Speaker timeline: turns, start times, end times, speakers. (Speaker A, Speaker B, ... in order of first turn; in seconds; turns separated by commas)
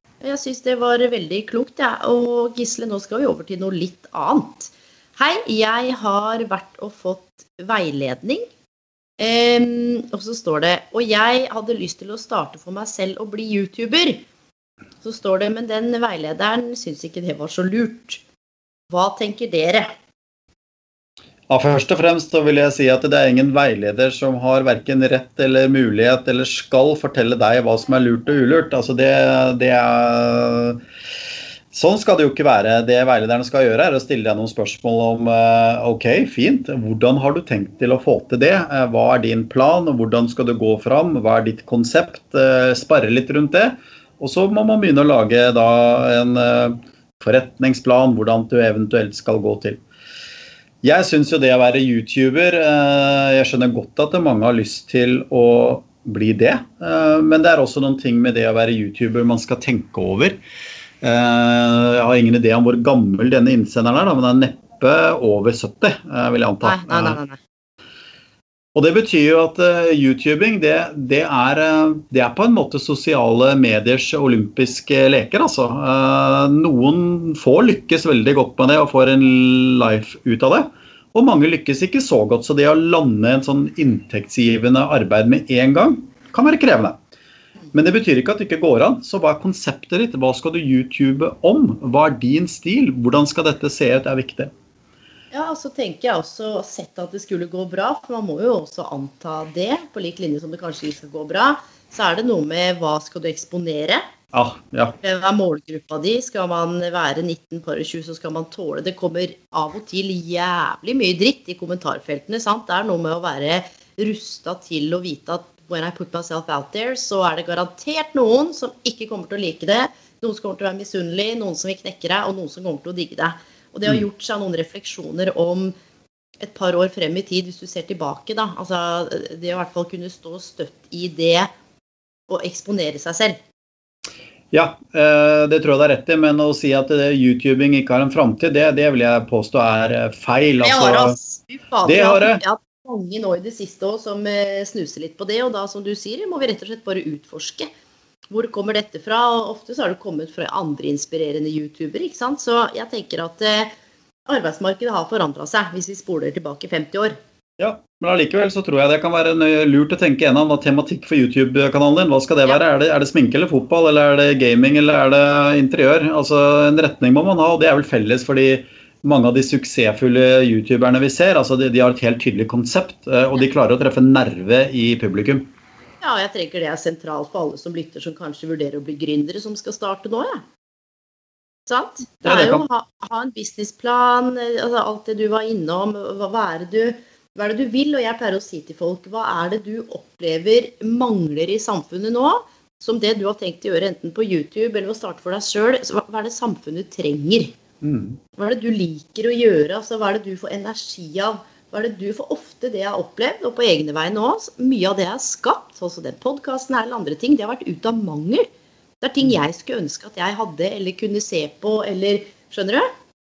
Speaker A: 0.2-8.5, Speaker A: 9.2-14.2, Speaker A: 15.0-18.2, Speaker A: 18.9-19.9, Speaker B: 21.5-30.8, Speaker B: 31.7-49.8, Speaker B: 50.8-60.4, Speaker B: 61.0-67.2, Speaker A: 66.6-67.4, Speaker B: 68.8-87.0, Speaker B: 87.7-94.5, Speaker A: 95.3-104.0, Speaker B: 104.3-105.0, Speaker A: 105.0-125.7, Speaker A: 126.4-131.5, Speaker A: 132.3-133.4, Speaker B: 134.5-141.2, Speaker A: 140.6-147.7, Speaker B: 141.8-142.4, Speaker A: 148.3-153.7, Speaker A: 154.3-157.2, Speaker B: 157.6-175.5, Speaker A: 176.0-180.4, Speaker A: 181.7-197.5, Speaker B: 182.2-182.7, Speaker B: 197.8-198.2, Speaker A: 198.4-208.5, Speaker A: 209.0-212.9